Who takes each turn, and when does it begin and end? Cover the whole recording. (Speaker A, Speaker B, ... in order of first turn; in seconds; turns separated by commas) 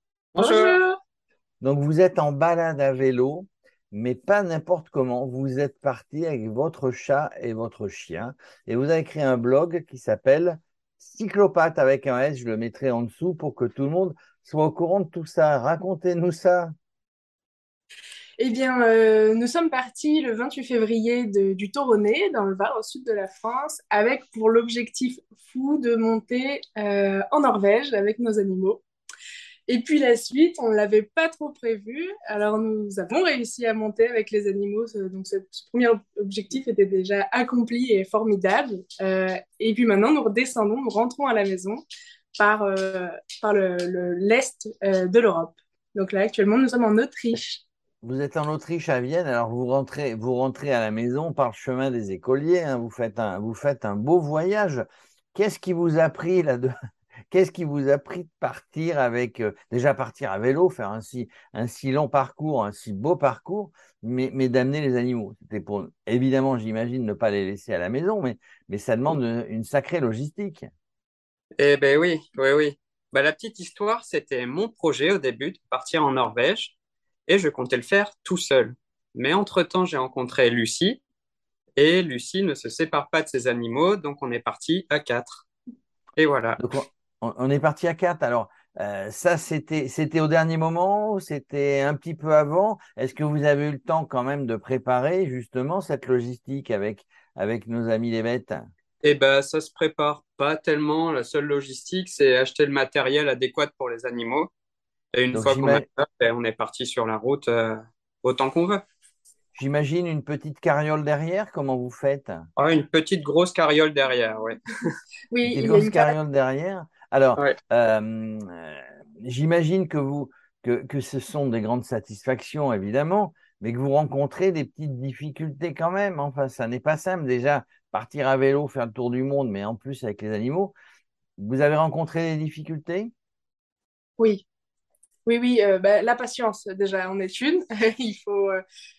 Speaker A: 0.3-0.8, Speaker B: 0.4-1.0, Speaker C: 1.6-16.7, Speaker B: 18.4-28.8, Speaker B: 29.7-41.8, Speaker B: 42.4-47.6, Speaker C: 48.0-56.7, Speaker C: 57.3-70.7, Speaker A: 71.6-76.8, Speaker A: 77.3-81.0, Speaker A: 81.8-85.5, Speaker A: 86.2-86.6, Speaker C: 86.6-98.6, Speaker A: 99.0-104.5, Speaker A: 105.1-108.8, Speaker C: 105.3-105.8, Speaker C: 109.5-112.4, Speaker A: 112.6-114.8, Speaker B: 115.3-116.2, Speaker C: 115.5-130.7, Speaker C: 131.4-133.1, Speaker B: 134.2-134.4, Speaker B: 135.2-138.6